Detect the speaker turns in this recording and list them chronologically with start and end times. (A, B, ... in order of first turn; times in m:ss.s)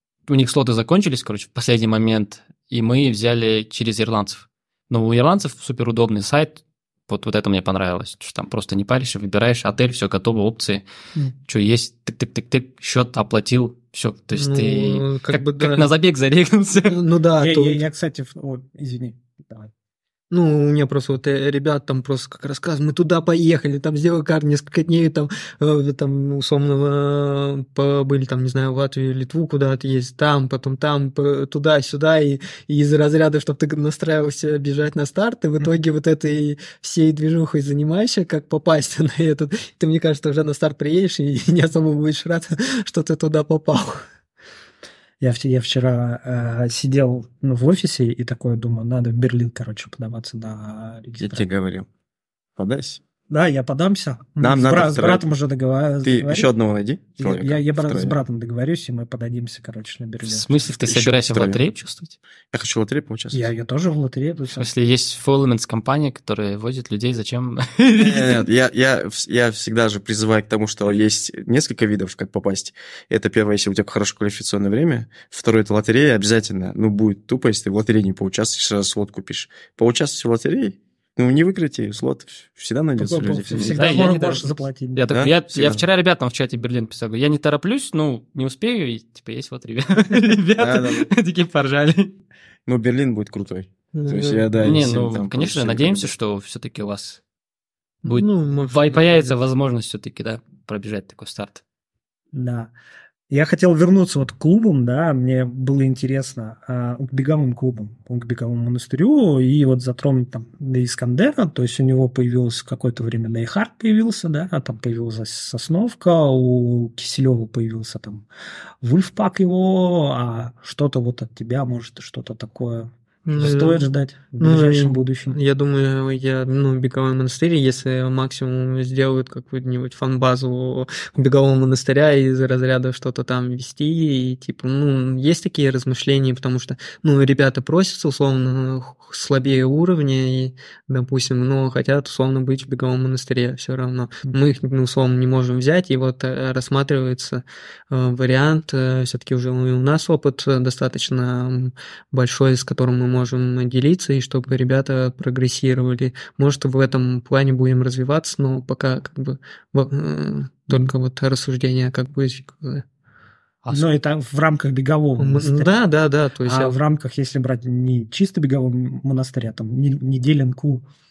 0:00.3-0:10.8 A
0:11.5-0:16.9 A
0:14.3-0:15.9 B
0:16.8-0:17.8 B
0:17.4-0:19.7 C
0:20.3-0:44.0 B
0:45.2-0:51.5 C
0:51.2-0:51.9 D
0:52.6-0:53.0 D
0:53.3-0:56.5 C
0:54.4-0:55.2 D
0:56.0-0:58.2 D
0:57.2-1:00.6 C
1:00.2-1:02.2 A
1:00.8-1:01.6 D
1:02.5-1:03.5 D
1:03.3-1:04.7 C
1:04.6-1:08.4 A
1:08.0-1:23.8 D
1:23.0-1:25.0 C
1:23.5-1:32.1 A
1:25.1-1:25.8 D
1:30.6-1:31.1 D
1:32.7-1:36.1 D
1:33.9-1:34.4 B
1:34.6-1:37.2 A
1:38.0-1:41.6 A
1:38.0-1:39.3 B
1:42.3-1:42.7 C
1:43.3-1:58.2 C
1:58.8-2:05.4 C
2:03.2-2:03.8 B
2:04.4-2:42.8 B
2:43.6-2:43.9 A
2:43.7-2:45.8 C
2:45.2-2:46.8 B
2:46.4-2:50.8 C